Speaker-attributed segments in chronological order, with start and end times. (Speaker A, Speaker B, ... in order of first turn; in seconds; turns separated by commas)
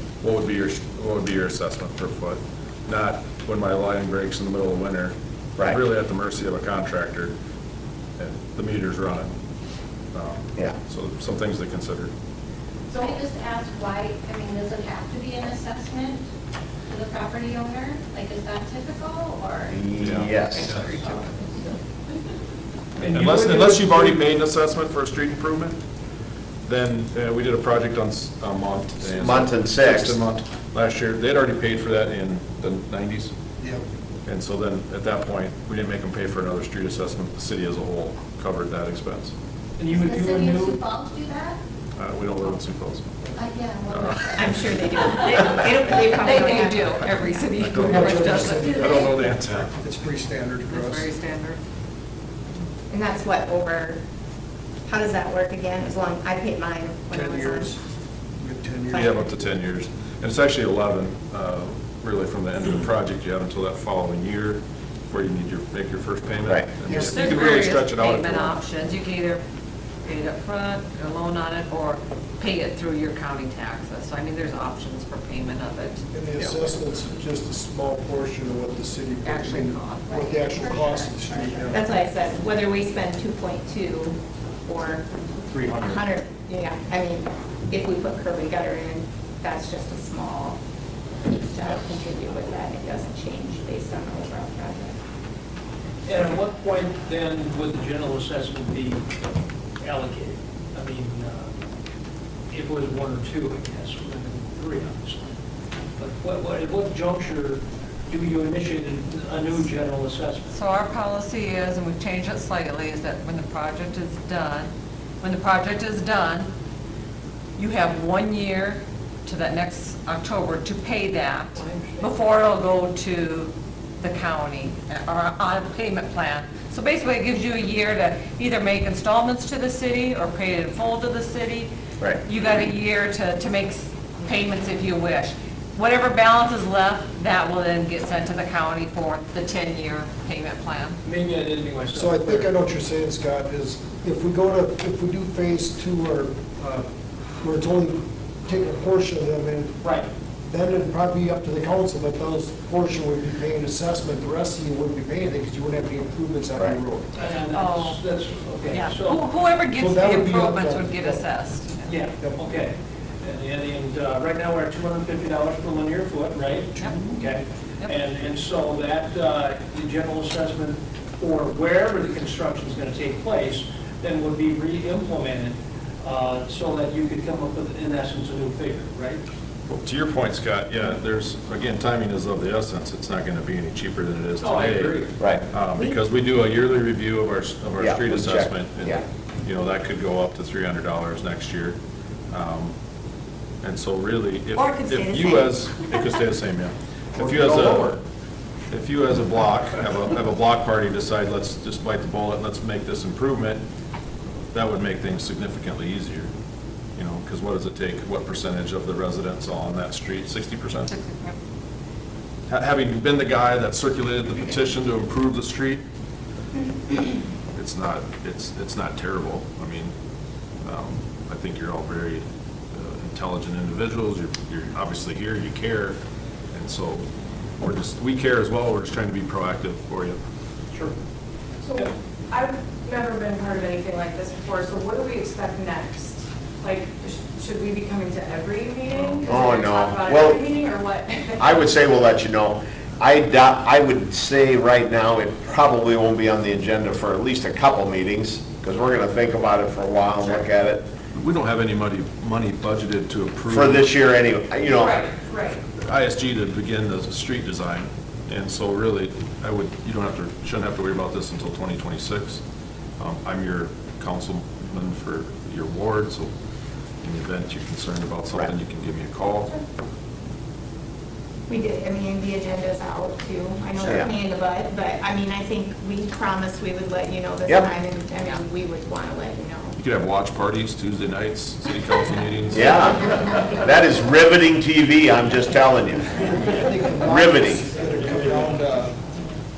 Speaker A: 0.2-7.3, Speaker A: 8.2-9.3, Speaker A: 10.1-12.1, Speaker B: 12.9-16.2, Speaker B: 16.9-19.8, Speaker C: 19.7-20.8, Speaker A: 20.0-21.0, Speaker B: 20.8-21.2, Speaker A: 23.0-25.8, Speaker D: 23.0-24.2, Speaker A: 26.6-33.3, Speaker C: 29.0-30.2, Speaker A: 34.2-39.3, Speaker D: 39.8-40.8, Speaker B: 39.9-41.6, Speaker A: 42.0-43.2, Speaker B: 43.4-45.5, Speaker A: 43.9-44.7, Speaker E: 44.4-47.4, Speaker F: 46.1-49.1, Speaker A: 47.6-49.8, Speaker G: 47.8-51.1, Speaker F: 50.7-51.6, Speaker E: 52.9-54.0, Speaker E: 54.9-57.7, Speaker G: 57.1-57.8, Speaker G: 58.4-59.3, Speaker A: 58.9-68.5, Speaker C: 66.5-66.8, Speaker G: 66.9-67.2, Speaker F: 66.9-69.4, Speaker F: 70.0-76.0, Speaker G: 76.1-81.9, Speaker F: 79.2-81.1, Speaker B: 80.5-81.0, Speaker E: 81.7-90.6, Speaker C: 85.5-86.0, Speaker E: 91.2-95.0, Speaker D: 96.0-99.0, Speaker D: 99.8-101.5, Speaker D: 102.5-105.3, Speaker D: 106.0-110.5, Speaker F: 110.5-114.7, Speaker F: 115.2-116.5, Speaker F: 117.6-131.7, Speaker D: 121.5-122.1, Speaker F: 132.2-141.0, Speaker D: 141.0-142.5, Speaker G: 141.9-146.8, Speaker G: 147.4-149.8, Speaker D: 149.8-150.1, Speaker G: 150.5-157.1, Speaker D: 157.2-159.2, Speaker F: 157.5-158.0, Speaker F: 158.7-161.9, Speaker G: 159.7-161.3, Speaker D: 161.8-179.2, Speaker A: 179.7-191.8, Speaker D: 184.4-185.1, Speaker C: 185.2-185.4, Speaker C: 187.8-189.0, Speaker A: 192.3-192.7, Speaker A: 193.6-198.0, Speaker C: 197.2-197.9, Speaker A: 198.7-203.6, Speaker A: 204.5-206.3, Speaker A: 206.9-210.9, Speaker F: 210.9-211.3, Speaker A: 212.5-215.8, Speaker A: 217.5-219.9, Speaker A: 220.6-226.0, Speaker A: 226.5-227.1, Speaker A: 227.6-230.2, Speaker H: 231.6-241.6, Speaker C: 239.2-240.4, Speaker C: 241.4-250.9, Speaker A: 251.1-253.8, Speaker C: 253.5-255.0, Speaker H: 254.7-255.6, Speaker A: 255.8-262.4, Speaker A: 263.0-266.3, Speaker A: 267.0-269.6, Speaker E: 271.5-279.8, Speaker C: 273.8-274.1, Speaker A: 279.8-282.7, Speaker C: 282.5-286.2, Speaker G: 286.2-289.0, Speaker C: 287.0-287.6